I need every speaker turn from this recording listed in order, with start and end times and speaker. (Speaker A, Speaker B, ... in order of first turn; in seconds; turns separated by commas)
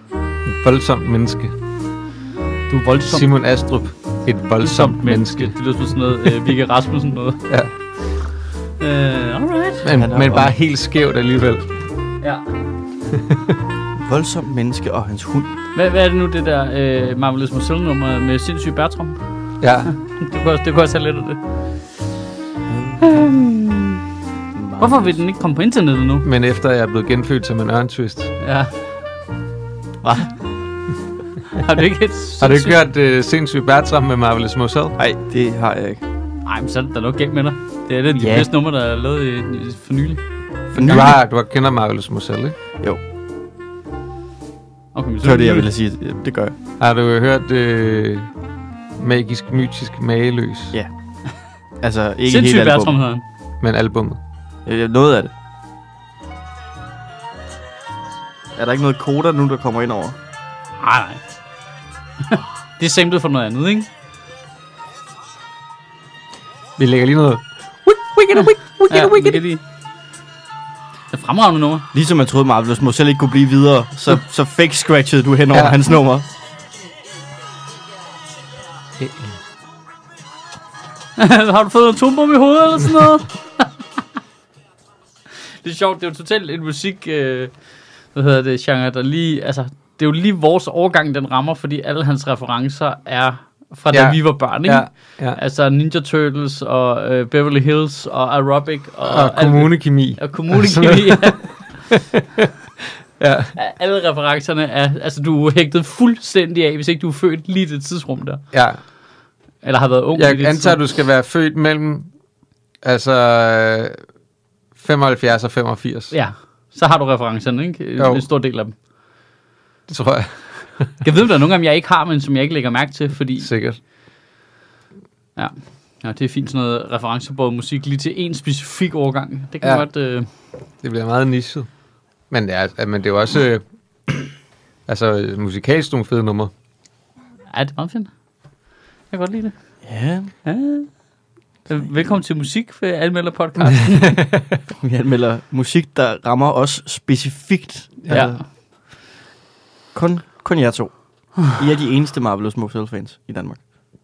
Speaker A: 0.5-1.6, Speaker B: 2.7-3.3, Speaker A: 3.1-5.5, Speaker B: 4.6-7.5, Speaker B: 8.8-9.9, Speaker A: 9.8-11.7, Speaker C: 10.0-10.5, Speaker A: 13.1-13.4, Speaker C: 14.0-15.5, Speaker B: 15.8-19.2, Speaker A: 19.6-19.9, Speaker B: 19.9-21.4, Speaker C: 22.7-23.4, Speaker B: 23.0-24.0, Speaker C: 24.6-25.2, Speaker B: 24.8-26.3, Speaker A: 26.2-28.3, Speaker B: 28.4-28.7, Speaker C: 30.0-30.3, Speaker B: 31.5-32.8, Speaker A: 32.4-35.0, Speaker C: 35.0-36.0, Speaker B: 36.5-40.2, Speaker C: 38.2-38.5, Speaker A: 40.7-42.6, Speaker C: 40.8-41.2, Speaker B: 45.0-45.7, Speaker C: 45.2-46.5, Speaker A: 46.8-48.3, Speaker A: 49.0-50.7, Speaker C: 51.8-53.0, Speaker B: 52.3-53.2, Speaker A: 53.6-54.2, Speaker C: 54.7-55.3, Speaker C: 58.6-60.2, Speaker B: 60.8-61.2, Speaker B: 62.2-63.9, Speaker A: 66.8-69.4, Speaker B: 68.9-69.6, Speaker B: 71.1-71.9, Speaker C: 71.9-76.2, Speaker A: 79.0-79.3, Speaker B: 81.2-83.7, Speaker B: 85.6-87.5, Speaker B: 88.2-101.7, Speaker A: 93.9-95.4, Speaker A: 99.0-102.5, Speaker A: 103.2-103.5, Speaker B: 103.5-108.4, Speaker A: 108.5-108.8, Speaker B: 109.6-110.8, Speaker A: 110.2-112.1, Speaker A: 112.8-114.0, Speaker A: 114.8-116.1, Speaker B: 116.1-118.7, Speaker A: 118.0-118.2, Speaker A: 119.9-120.9, Speaker B: 121.0-123.5, Speaker A: 123.4-123.8, Speaker B: 125.4-130.3, Speaker A: 130.8-131.7, Speaker A: 132.3-134.2, Speaker A: 134.9-136.5, Speaker B: 137.5-138.1, Speaker B: 139.1-139.6, Speaker C: 139.8-140.3, Speaker B: 140.4-140.9, Speaker B: 141.7-144.2, Speaker A: 143.6-144.6, Speaker C: 144.8-148.4, Speaker B: 148.1-148.4, Speaker C: 149.9-153.6